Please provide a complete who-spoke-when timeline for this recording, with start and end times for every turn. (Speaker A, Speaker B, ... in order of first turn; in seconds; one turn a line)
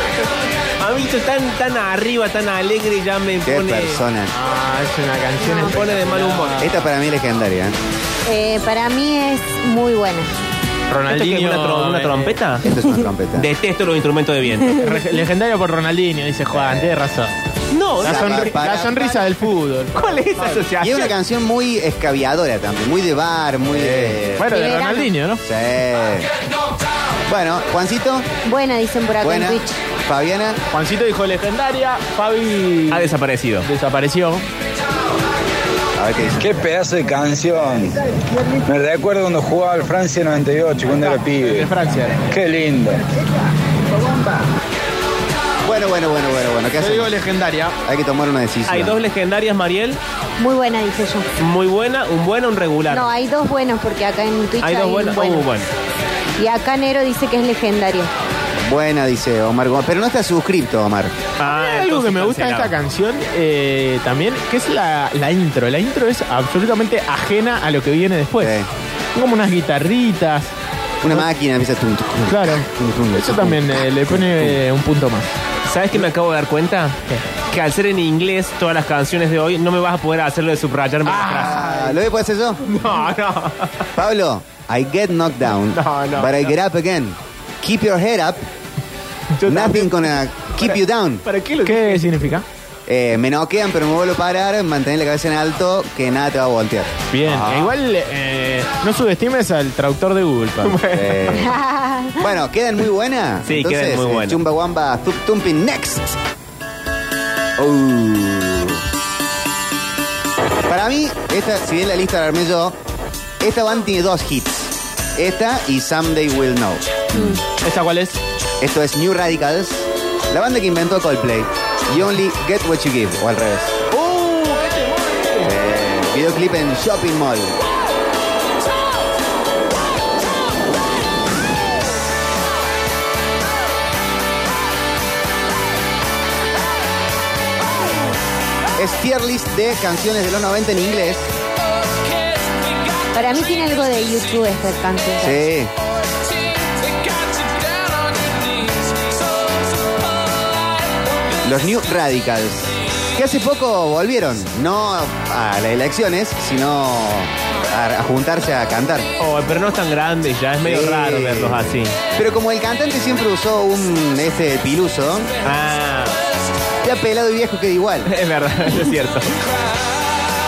Speaker A: 0.8-4.0
Speaker B: 3.5-4.3
Speaker C: 4.3-6.9
Speaker D: 5.4-5.8
Speaker A: 5.6-6.7
Speaker B: 6.6-7.8
Speaker D: 8.3-10.3
Speaker C: 10.9-12.4
Speaker A: 11.1-12.6
Speaker B: 12.6-13.5
Speaker A: 13.4-14.8
Speaker C: 14.8-17.3
Speaker B: 16.5-16.9
Speaker A: 17.7-18.6
Speaker C: 18.0-20.6
Speaker B: 18.0-19.4
Speaker A: 19.9-21.2
Speaker B: 20.8-24.5
Speaker C: 23.7-25.4
Speaker D: 24.5-25.1
Speaker B: 25.4-26.3
Speaker B: 27.3-28.3
Speaker D: 28.4-29.7
Speaker B: 29.2-30.6
Speaker C: 30.7-33.1
Speaker A: 32.9-33.7
Speaker C: 33.6-34.4
Speaker B: 36.0-36.5
Speaker E: 36.4-38.1
Speaker E: 38.6-43.0
Speaker C: 40.8-42.3
Speaker B: 44.0-44.5
Speaker B: 45.6-47.1
Speaker C: 46.8-47.8
Speaker B: 47.9-49.0
Speaker A: 48.7-50.0
Speaker D: 50.4-51.3
Speaker A: 51.4-53.1
Speaker D: 52.9-55.5
Speaker A: 54.6-55.7
Speaker D: 56.4-58.1
Speaker B: 58.6-61.2
Speaker A: 61.4-62.8
Speaker C: 61.4-68.6
Speaker B: 68.4-68.7
Speaker C: 69.2-70.5
Speaker B: 71.0-74.6
Speaker C: 72.3-75.3
Speaker A: 75.7-81.7
Speaker C: 81.1-82.0
Speaker B: 81.3-82.6
Speaker A: 82.7-83.7
Speaker B: 84.0-88.5
Speaker A: 85.7-86.5
Speaker A: 89.4-92.1
Speaker B: 89.5-91.2
Speaker C: 91.7-92.5
Speaker B: 92.9-97.7
Speaker C: 97.1-100.8
Speaker A: 100.6-101.5
Speaker B: 100.9-101.6
Speaker D: 101.4-102.2
Speaker B: 102.2-106.2
Speaker A: 103.5-104.4
Speaker B: 107.6-108.8
Speaker B: 110.7-112.8
Speaker B: 113.4-117.3
Speaker D: 117.1-117.4
Speaker C: 117.5-118.2
Speaker B: 118.6-123.8
Speaker C: 123.9-125.5
Speaker B: 125.4-127.5
Speaker B: 138.8-141.3
Speaker D: 143.1-145.4
Speaker B: 145.2-145.7
Speaker B: 151.4-159.1
Speaker A: 159.2-161.9
Speaker B: 160.6-165.3
Speaker A: 165.4-166.2
Speaker B: 166.8-168.1
Speaker A: 168.1-169.4